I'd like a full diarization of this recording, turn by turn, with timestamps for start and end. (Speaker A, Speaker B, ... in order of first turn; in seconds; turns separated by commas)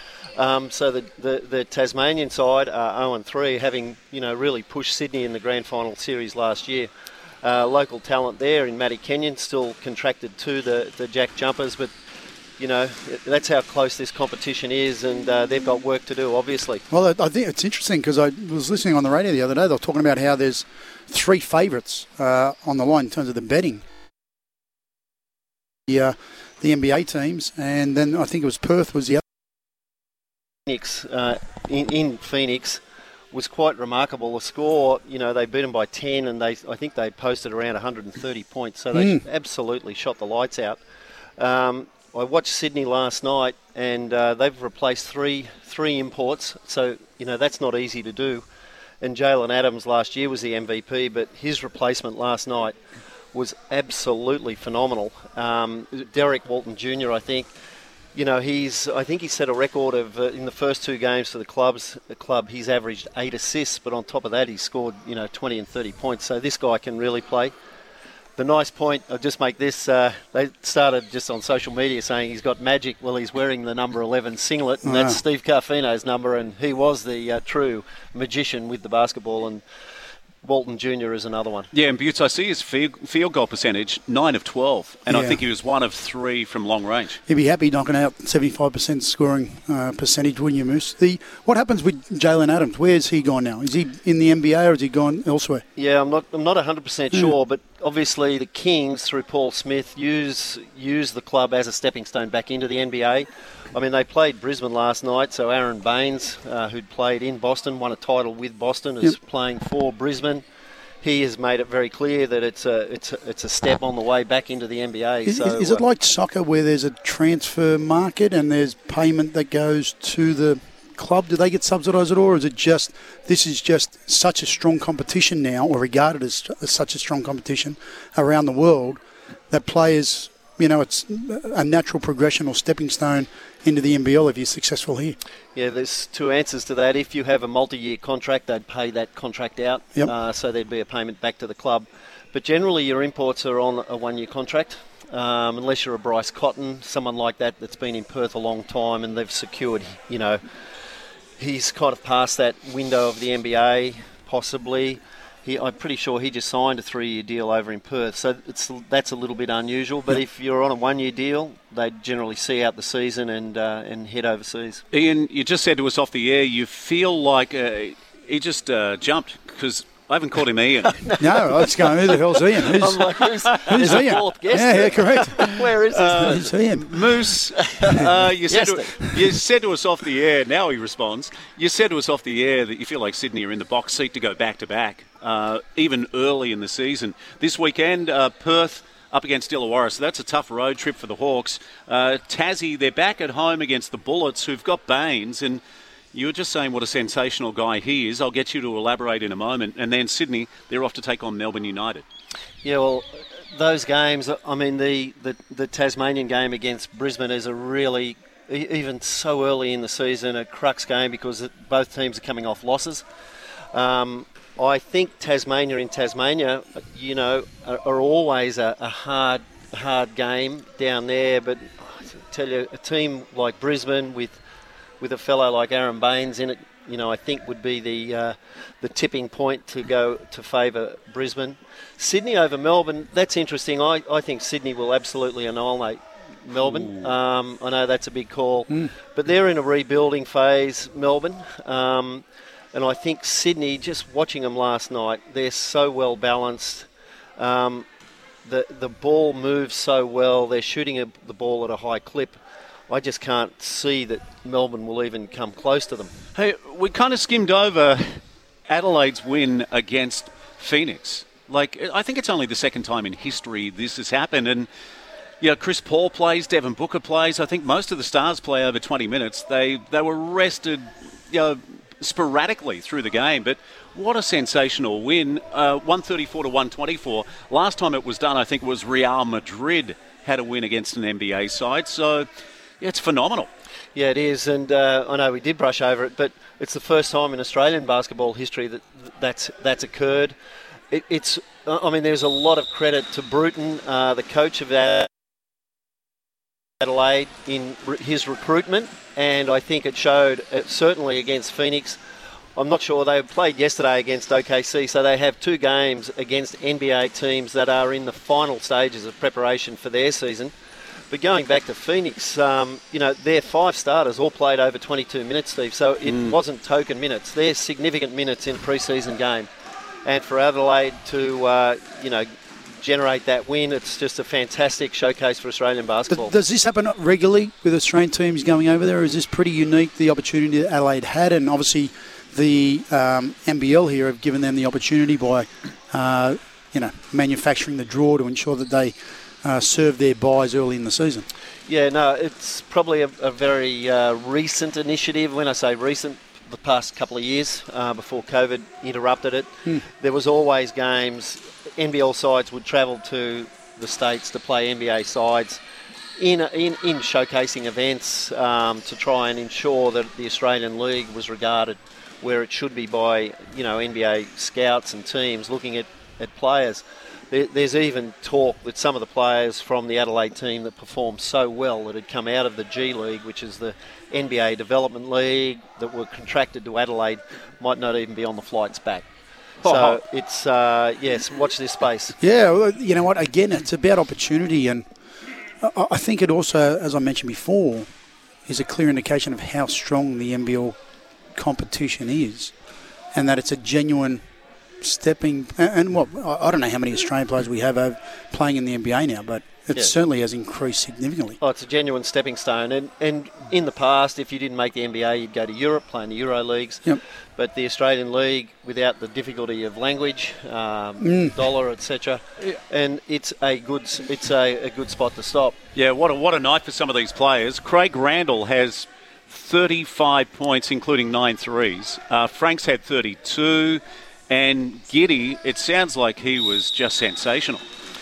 Speaker A: 0.3-6.9, Speaker A: 7.4-11.9, Speaker A: 12.6-16.8, Speaker B: 16.9-23.9, Speaker B: 25.9-29.2, Speaker A: 30.7-32.8, Speaker A: 33.3-40.8, Speaker B: 38.9-39.2, Speaker A: 41.4-48.5, Speaker A: 49.0-52.8, Speaker A: 53.3-57.5, Speaker A: 58.1-67.5, Speaker A: 68.4-79.6, Speaker B: 74.8-75.2, Speaker A: 80.4-81.7, Speaker C: 81.7-87.2, Speaker B: 85.1-85.4, Speaker B: 87.3-95.6, Speaker A: 95.8-110.4, Speaker A: 111.0-115.8, Speaker B: 115.2-135.2, Speaker A: 135.6-150.4, Speaker A: 151.4-164.8, Speaker C: 164.9-171.1, Speaker B: 171.2-175.5, Speaker A: 172.6-176.6, Speaker C: 173.7-174.0, Speaker C: 175.9-195.6, Speaker B: 176.2-176.9, Speaker A: 177.5-179.1, Speaker C: 196.1-202.0, Speaker A: 202.6-213.0, Speaker A: 213.7-224.4, Speaker A: 225.0-247.9, Speaker A: 248.4-252.4, Speaker A: 252.9-256.1, Speaker C: 256.4-264.7, Speaker C: 265.4-282.3, Speaker C: 282.8-283.5, Speaker A: 283.9-290.4, Speaker A: 290.9-295.1, Speaker A: 296.8-302.0, Speaker A: 302.6-310.5, Speaker A: 311.1-319.5, Speaker C: 316.0-316.4, Speaker A: 320.1-322.3, Speaker A: 322.8-326.4, Speaker B: 326.1-341.3, Speaker A: 341.7-355.6, Speaker A: 356.2-379.1, Speaker A: 379.6-382.1, Speaker C: 379.6-380.0, Speaker B: 382.2-384.9, Speaker B: 385.6-387.9, Speaker B: 388.5-390.8, Speaker B: 391.4-392.5, Speaker B: 393.1-394.2, Speaker B: 394.8-401.4, Speaker A: 401.4-415.6, Speaker B: 411.0-411.4, Speaker C: 415.8-427.6